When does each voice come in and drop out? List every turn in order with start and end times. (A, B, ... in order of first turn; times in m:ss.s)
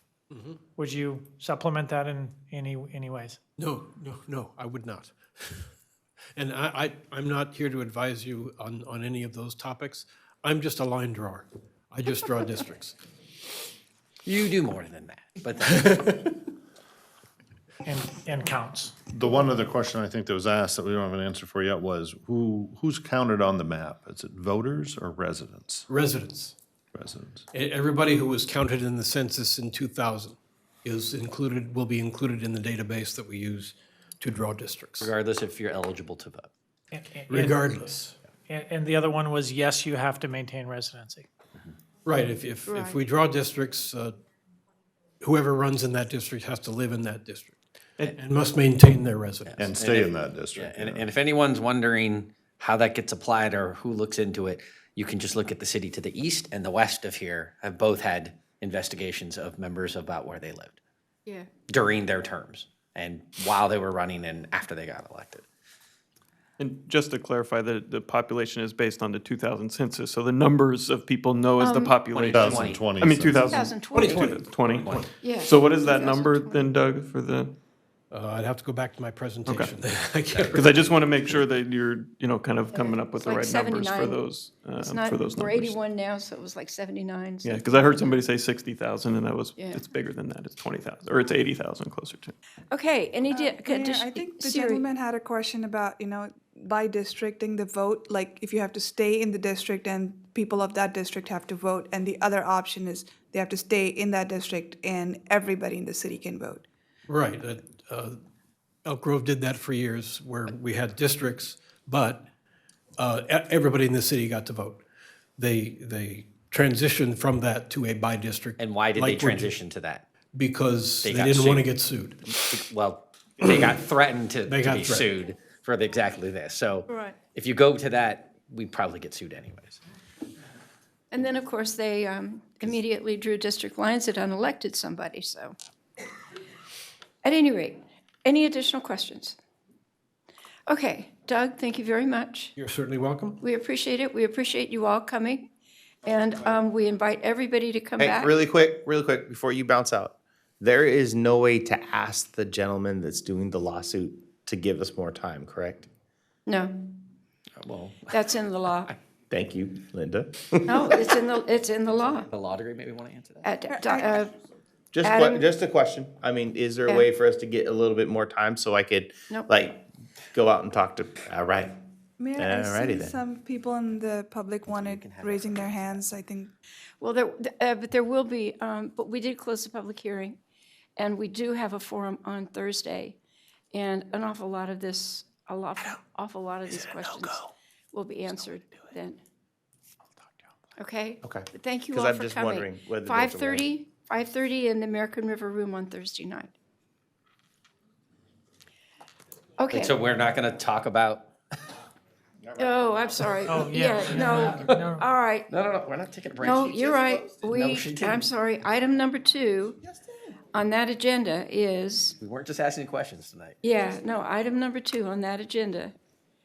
0:00.3-0:00.6 A
0:00.8-0:03.4 B
0:03.6-0:05.7 A
0:06.3-0:13.0 A
0:14.2-0:16.1 C
0:15.6-0:16.4 A
0:17.8-0:18.9 B
0:19.1-0:25.9 D
0:25.9-0:26.5 A
0:26.9-0:27.4 D
0:27.5-0:35.1 A
0:35.0-0:36.5 C
0:36.9-0:37.6 B
0:37.3-0:38.2 A
0:38.5-0:41.2 B
0:42.0-0:44.2 A
0:45.2-0:49.6 A
0:49.5-1:00.8 C
0:49.6-0:51.1 D
1:01.7-1:05.4 C
1:06.6-1:17.6 E
1:11.6-1:11.9 F
1:12.1-1:13.7 D
1:12.2-1:12.8 C
1:13.5-1:14.3 F
1:13.9-1:15.1 A
1:15.2-1:16.6 F
1:18.1-1:20.9 A
1:19.4-1:19.7 E
1:20.4-1:25.8 E
1:22.7-1:24.2 F
1:24.8-1:28.0 F
1:27.4-1:32.4 E
1:32.7-1:34.8 F
1:33.3-1:46.6 G
1:47.1-1:48.2 A
1:48.8-1:52.3 A
1:53.0-1:54.8 A
1:55.4-1:59.5 A
1:58.6-2:00.0 C
2:00.3-2:02.4 A
2:01.0-2:01.7 C
2:02.3-2:09.8 C
2:04.4-2:05.1 A
2:11.1-2:15.5 F
2:17.2-2:19.4 F
2:20.7-2:22.5 F
2:22.6-2:23.4 A
2:23.4-2:25.5 F
2:26.0-2:28.3 F
2:28.0-2:35.9 H
2:36.4-2:36.8 F
2:37.6-2:38.2 C
2:38.1-2:38.9 F
2:39.3-2:41.1 H
2:40.6-2:42.3 F
2:42.3-2:43.5 C
2:43.4-2:44.3 F
2:43.7-2:44.2 G
2:44.9-2:51.7 H
2:45.0-2:45.4 F
2:52.2-2:56.5 G
2:52.3-2:53.2 H
2:54.6-2:56.1 C
2:57.0-3:00.4 F
3:01.0-3:03.2 F
3:03.7-3:09.2 F
3:10.8-3:16.5 F
3:11.2-3:13.7 H
3:19.6-3:19.9 F
3:19.7-3:21.3 C
3:22.6-3:25.5 F
3:23.5-3:25.0 B
3:24.2-3:24.9 C
3:25.5-3:26.9 C
3:26.4-3:29.8 F
3:27.4-3:28.3 C
3:30.5-3:32.2 F
3:32.2-3:33.6 C
3:33.6-3:35.9 F